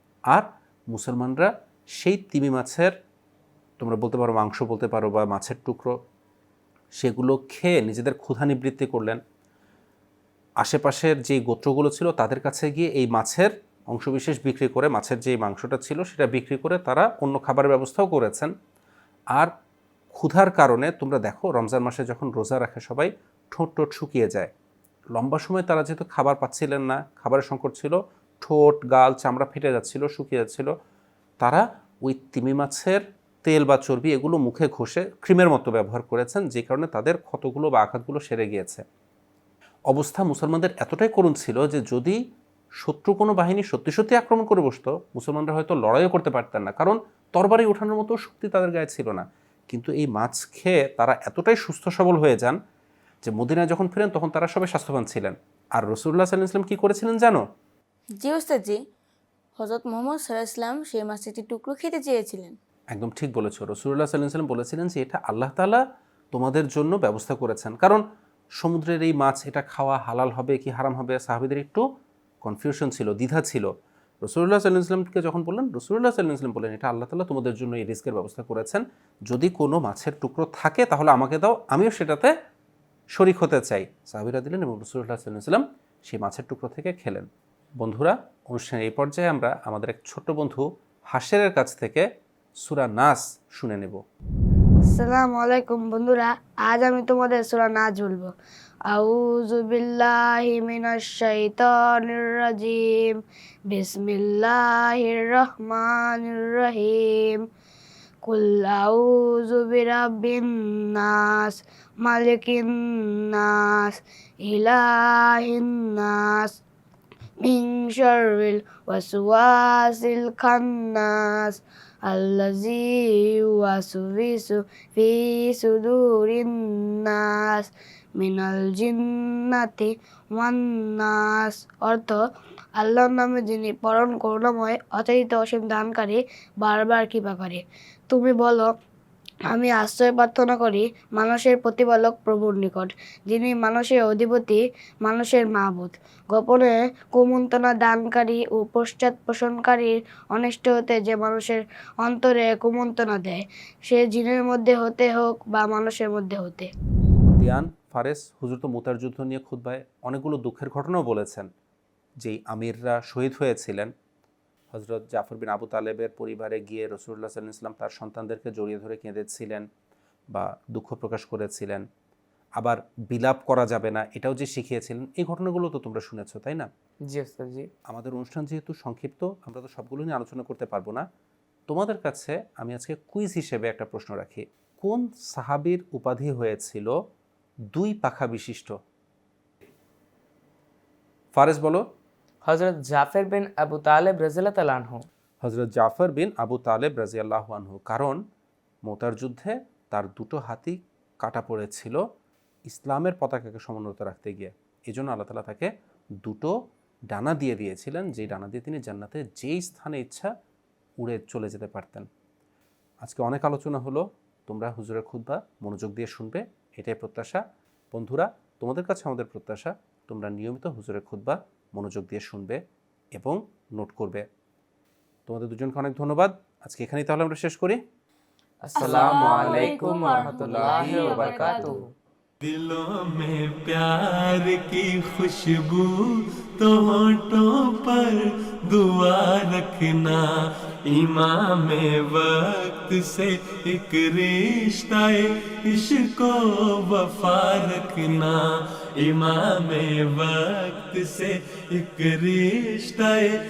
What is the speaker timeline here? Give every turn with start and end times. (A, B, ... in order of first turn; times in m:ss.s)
0:00.3-0:02.9 A
0:03.8-0:05.9 A
0:07.0-0:09.2 A
0:10.6-0:18.5 A
0:20.1-0:24.5 A
0:25.1-0:30.7 A
0:31.4-0:38.8 A
0:39.9-0:42.2 A
0:42.8-0:52.6 A
0:53.2-0:57.4 A
0:58.2-0:58.8 B
0:59.6-1:02.6 B
1:02.9-1:05.8 A
1:06.3-1:08.0 A
1:08.6-1:11.8 A
1:12.4-1:13.7 A
1:14.2-1:22.3 A
1:23.1-1:27.3 A
1:27.8-1:32.0 A
1:32.6-1:34.0 A
1:34.8-1:38.3 C
1:38.9-1:43.2 C
1:43.7-1:47.4 C
1:48.2-1:56.5 C
1:57.4-2:12.2 C
2:12.8-2:18.7 C
2:19.5-2:36.7 C
2:37.4-2:41.5 A
2:42.2-2:43.9 A
2:44.7-2:49.6 A
2:50.3-2:51.8 A
2:52.6-2:56.7 A
2:57.1-2:57.7 D
2:57.9-3:01.0 A
3:01.7-3:06.9 A
3:07.7-3:08.7 A
3:11.3-3:11.8 A
3:12.4-3:15.0 D
3:15.4-3:18.2 A
3:18.8-3:22.0 A
3:22.7-3:25.7 A
3:26.2-3:26.5 A
3:27.1-3:30.3 A
3:31.0-3:32.1 A
3:33.0-3:42.6 A
3:43.1-3:44.2 A
3:45.3-3:47.8 A
3:48.6-3:51.9 D
3:48.7-3:51.8 B
3:48.8-3:51.6 A
3:52.5-3:55.9 E
3:56.6-4:00.2 E
4:00.9-4:05.2 E
4:05.7-4:08.4 E
4:09.0-4:13.3 E